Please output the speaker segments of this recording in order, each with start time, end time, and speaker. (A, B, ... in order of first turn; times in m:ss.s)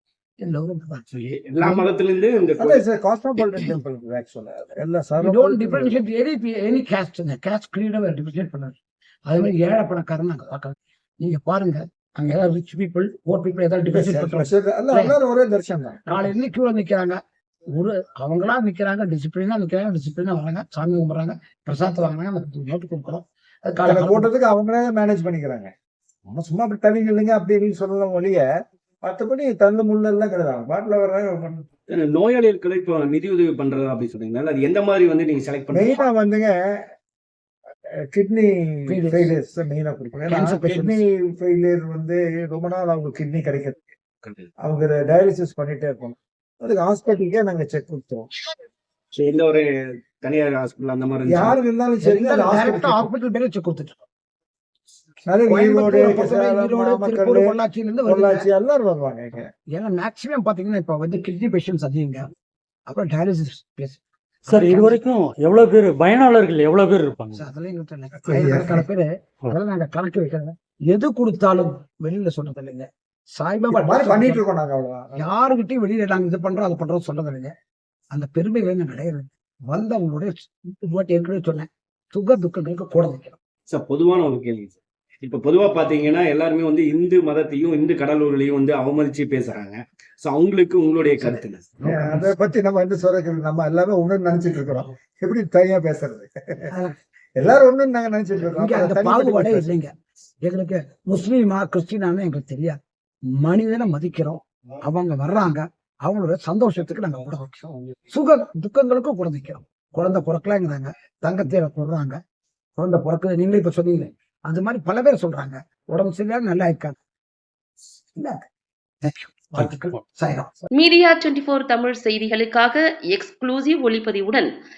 0:00.4-0:01.0 A
0:01.1-0:02.8 B
0:01.6-0:01.8 A
0:02.6-0:06.0 C
0:05.2-0:15.2 A
0:13.9-0:16.3 C
0:16.1-0:24.3 A
0:23.8-0:25.7 C
0:26.3-0:28.4 C
0:29.0-0:31.7 C
0:31.9-0:36.0 B
0:35.7-0:36.9 C
0:38.1-0:43.9 C
0:38.9-0:39.3 A
0:40.3-0:41.0 A
0:44.2-0:44.5 B
0:44.6-0:48.3 C
0:49.1-0:49.7 B
0:50.2-0:51.6 B
0:51.3-0:53.1 C
0:52.0-0:54.0 A
0:55.3-0:59.5 C
0:55.5-0:58.5 A
0:59.7-1:02.3 A
1:02.9-1:05.0 A
1:04.5-1:07.4 D
1:07.3-1:14.4 A
1:08.2-1:08.9 C
1:13.7-1:15.2 C
1:15.2-1:17.6 A
1:18.1-1:23.4 A
1:23.7-1:31.7 B
1:31.2-1:32.5 A
1:31.8-1:36.7 C
1:36.7-1:37.0 A
1:37.4-1:39.7 C
1:38.4-1:42.8 A
1:43.4-1:52.2 A
1:52.8-1:57.0 A
1:58.2-1:58.5 A
1:59.0-2:00.7 A
1:59.6-2:00.0 D
2:00.7-2:04.5 E